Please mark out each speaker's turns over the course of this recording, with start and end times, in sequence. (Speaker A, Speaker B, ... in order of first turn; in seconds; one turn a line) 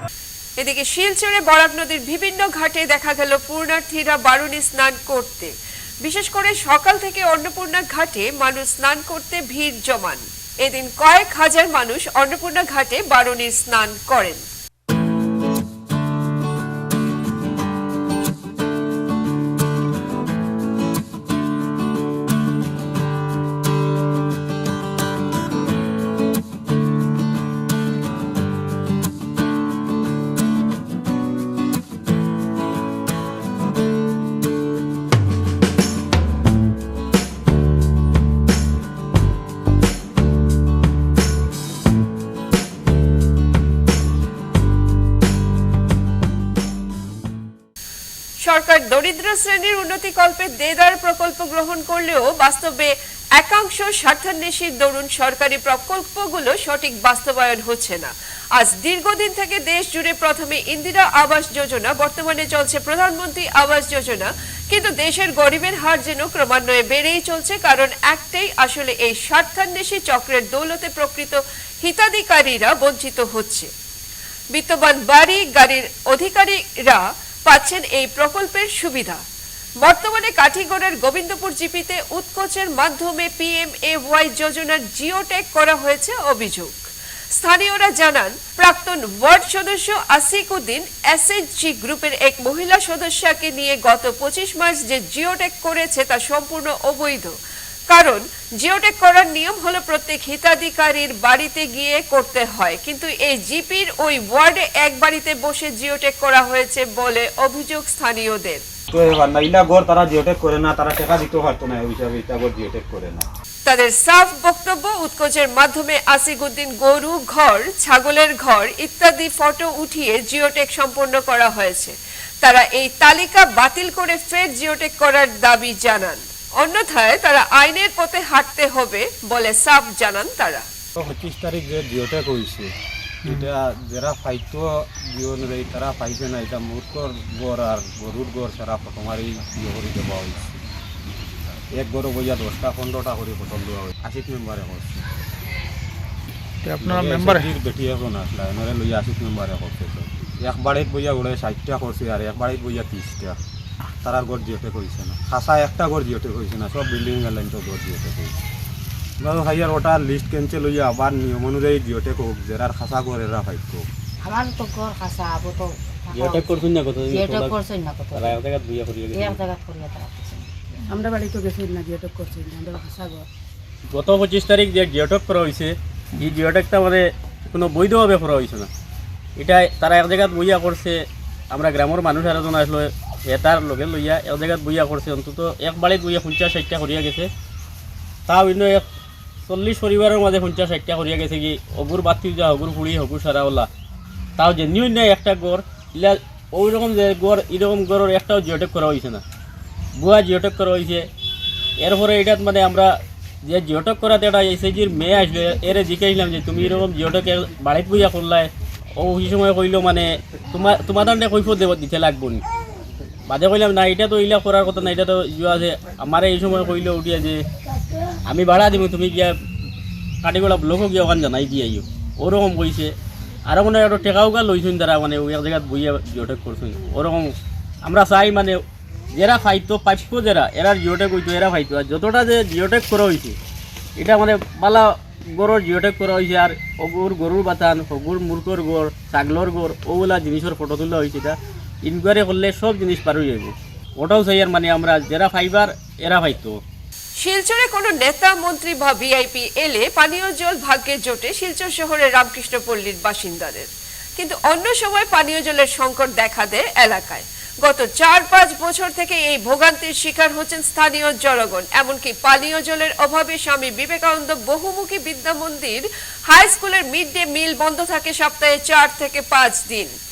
Speaker A: 0.6-14.4
Speaker A: 48.4-73.7
Speaker A: 74.5-79.2
Speaker A: 79.8-97.3
Speaker A: 97.9-108.6
Speaker B: 108.9-113.2
Speaker A: 113.6-130.7
Speaker B: 131.0-132.7
Speaker B: 133.2-140.6
Speaker B: 141.4-145.0
Speaker B: 146.8-153.4
Speaker B: 154.0-158.3
Speaker B: 159.2-163.9
Speaker C: 164.2-166.5
Speaker D: 166.1-167.6
Speaker C: 167.1-168.3
Speaker D: 168.1-169.4
Speaker C: 169.1-170.4
Speaker E: 170.8-173.2
Speaker D: 173.9-178.7
Speaker D: 179.4-187.3
Speaker D: 188.3-188.8
Speaker D: 189.5-193.7
Speaker D: 194.4-199.2
Speaker D: 199.9-201.1
Speaker D: 201.8-202.9
Speaker D: 203.4-212.4
Speaker D: 213.3-217.4
Speaker D: 218.3-219.3
Speaker D: 220.2-222.9
Speaker D: 223.5-227.3
Speaker D: 227.8-228.6
Speaker D: 229.2-233.4
Speaker D: 234.0-246.5
Speaker A: 247.2-269.9